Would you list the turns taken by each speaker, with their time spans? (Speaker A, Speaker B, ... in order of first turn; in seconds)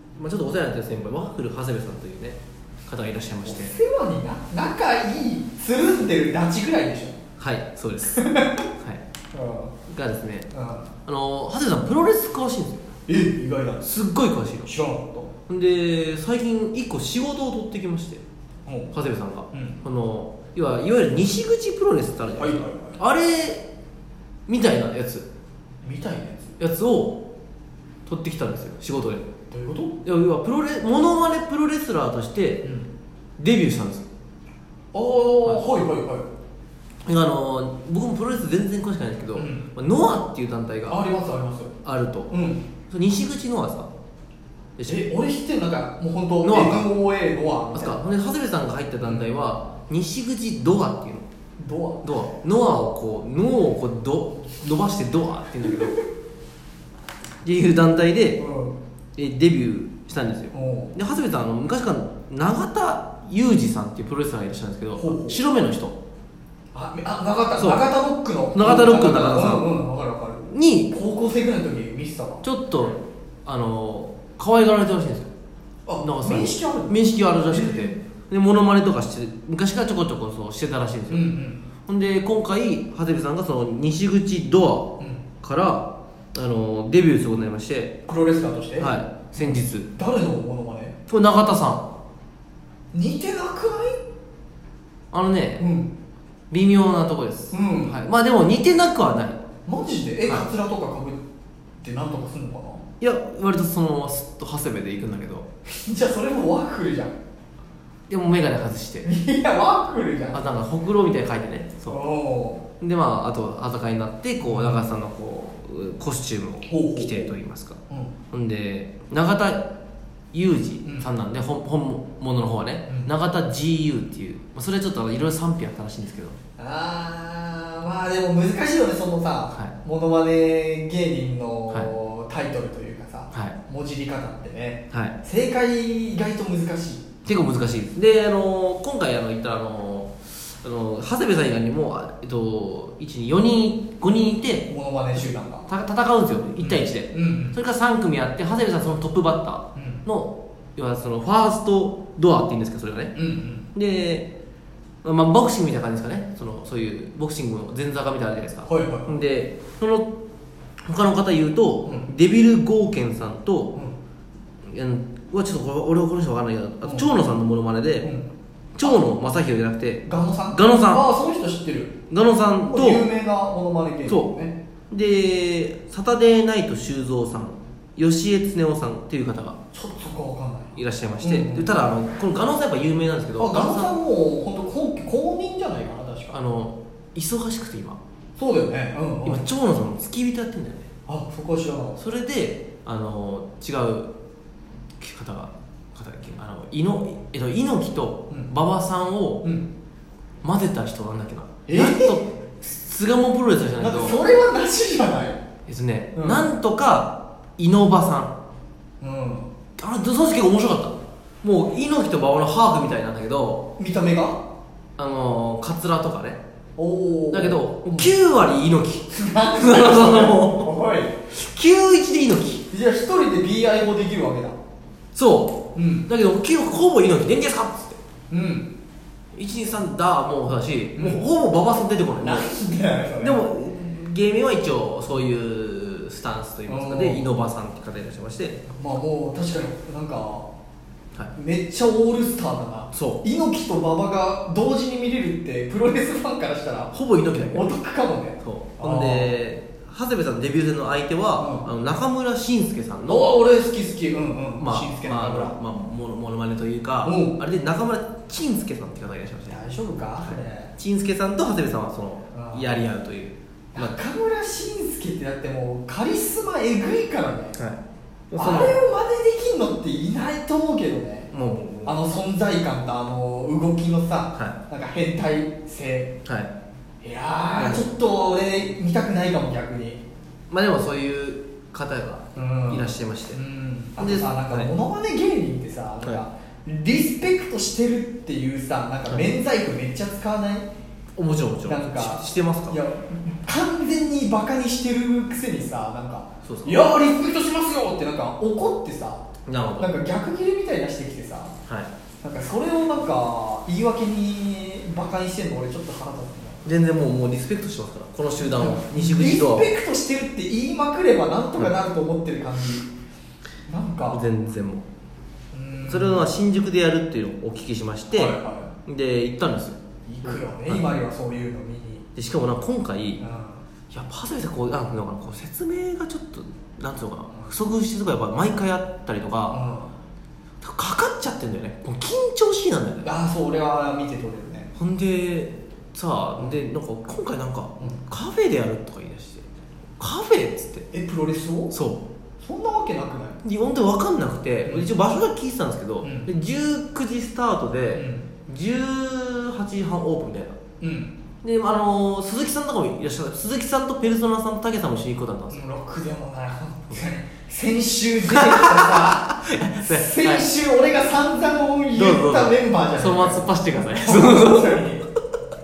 Speaker A: 0.1-3.7, 7.4-9.0, 9.9-10.5, 11.1-12.9, 13.8-14.7, 15.5-18.2, 18.9-23.6, 24.5-25.3, 26.6-27.2, 28.0-29.3, 30.0-32.6, 33.4-34.0, 35.4-35.7, 37.0-41.0, 41.8-42.3, 42.9-43.9, 44.8-45.1, 46.4-46.9, 47.7-51.3, 52.0-56.0, 57.4-58.4, 59.1-66.0, 67.6-67.8, 68.5-69.7, 70.5-70.9, 72.4-75.3, 76.0-81.3, 81.9-88.0, 88.8-89.9, 91.1-91.9, 95.1-95.7, 96.5-99.4, 103.0-105.5, 108.1-109.1, 110.3-112.0, 112.8-119.7, 120.3-126.4, 133.3-133.6, 134.9-135.2, 137.2-144.7, 145.7-153.1, 153.7-154.3, 155.0-160.1, 160.8-163.7, 164.6-168.1, 168.7-171.1, 172.1-173.1, 174.1-174.3, 174.9-179.6, 180.7-183.9, 186.3-188.0, 189.2-190.9, 192.0-194.1, 195.0-199.4, 200.4-204.2, 205.7-208.3, 209.8-213.7, 215.0-216.4, 217.3-220.7, 221.3-222.6, 225.1-228.0, 229.3-232.5, 233.2-238.6, 242.9-243.2, 246.9-247.7, 248.4-253.3, 254.6-259.6, 260.2-263.9, 268.3-268.8, 271.3-272.0, 276.2-276.5, 277.5-277.9, 280.5-283.4, 284.0-284.7, 289.1-289.3, 291.1-292.8, 296.4-296.9, 299.4-299.9, 306.6-309.7, 314.1-314.9, 315.9-320.8, 322.1-323.2, 323.9-329.6, 330.6-333.1, 334.8-339.5, 340.0-340.9, 341.7-342.0, 343.4-350.6, 351.4-355.6, 358.3-360.5, 361.9-365.0
Speaker B: 3.4-7.2, 8.0-8.7, 9.3-9.7, 10.5-10.9, 13.1-13.9, 14.7-15.3, 18.7-18.9, 19.5-19.8, 22.4-23.0, 25.8-26.6, 29.5-30.0, 34.9-36.3, 39.3-39.7, 40.9-41.7, 42.3-42.6, 44.9-48.0, 49.0-49.3, 51.6-52.1, 58.4-58.8, 60.5-60.9, 65.0-65.4, 66.7-72.4, 75.9-77.9, 81.1-81.6, 88.0-91.0, 92.9-94.0, 95.6-95.9, 97.5-98.0, 99.7-101.2, 101.8-102.8, 105.7-107.1, 109.0-110.4, 111.9-112.6, 114.4-114.9, 116.7-117.3, 120.8-121.1, 126.6-137.1, 144.7-145.7, 146.6-147.6, 149.7-150.0, 153.2-153.7, 158.7-159.2, 166.8-167.1, 168.0-168.3, 170.0-172.0, 172.7-174.6, 179.7-181.7, 183.4-186.4, 188.4-189.4, 191.1-192.0, 199.4-199.7, 201.7-202.2, 203.8-205.4, 206.1-206.4, 209.0-209.5, 213.8-214.4, 216.8-218.1, 219.1-221.2, 222.7-224.6, 225.7-226.1, 228.3-228.7, 230.9-231.2, 232.2-233.5, 236.7-237.3, 238.7-240.5, 241.3-246.9, 247.5-249.3, 251.4-251.7, 253.1-255.6, 257.0-257.4, 259.5-260.7, 262.3-262.8, 263.7-267.6, 268.4-271.3, 271.8-276.1, 277.0-280.0, 282.4-290.7, 291.7-299.2, 299.8-301.6, 302.2-306.6, 308.4-312.9, 313.7-314.2, 315.5-316.3, 318.1-318.7, 320.1-322.0, 323.2-323.6, 329.5-329.9, 333.0-334.7, 340.9-341.7, 342.4-343.4, 346.0-346.3, 347.9-348.3, 350.8-351.1, 355.5-365.1